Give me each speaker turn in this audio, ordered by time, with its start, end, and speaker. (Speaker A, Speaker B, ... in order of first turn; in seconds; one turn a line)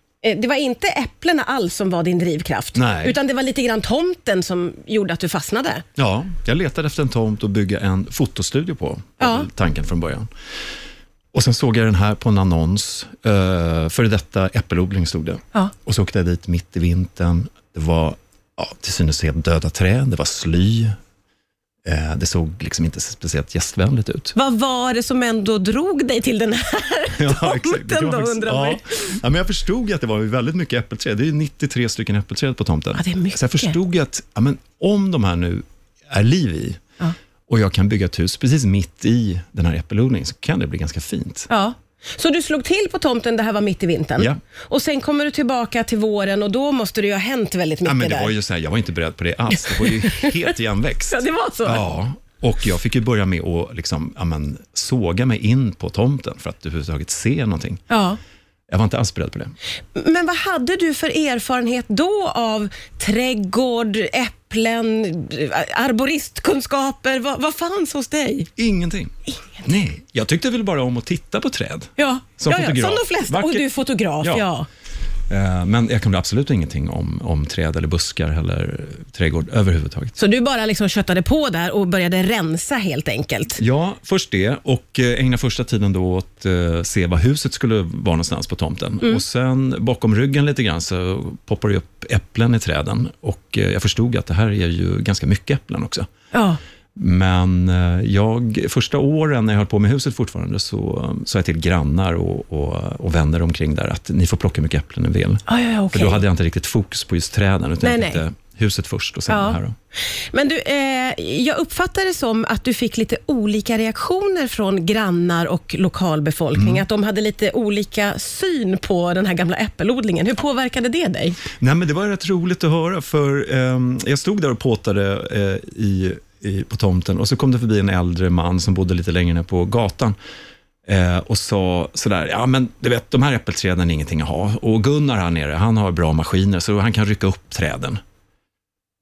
Speaker A: 0.2-5.8
Speaker B: 2.7-3.2
Speaker B: 6.0-10.3
Speaker A: 9.2-9.5
Speaker B: 11.3-20.9
Speaker B: 21.9-24.3
Speaker A: 24.3-29.1
Speaker B: 27.1-36.8
Speaker A: 32.9-33.8
Speaker B: 37.5-41.5
Speaker A: 41.5-48.3
Speaker B: 47.8-57.8
Speaker A: 49.6-50.3
Speaker A: 51.1-51.8
Speaker A: 57.9-58.2
Speaker B: 58.7-59.5
Speaker A: 59.9-68.5
Speaker B: 68.6-73.6
Speaker A: 72.0-74.7
Speaker B: 75.3-80.2
Speaker A: 80.2-83.6
Speaker B: 83.6-96.1
Speaker A: 96.3-96.6
Speaker B: 97.0-109.7
Speaker A: 105.5-106.2
Speaker A: 107.8-108.2
Speaker A: 109.3-121.4
Speaker B: 116.5-116.8
Speaker B: 121.6-130.2
Speaker B: 130.8-138.0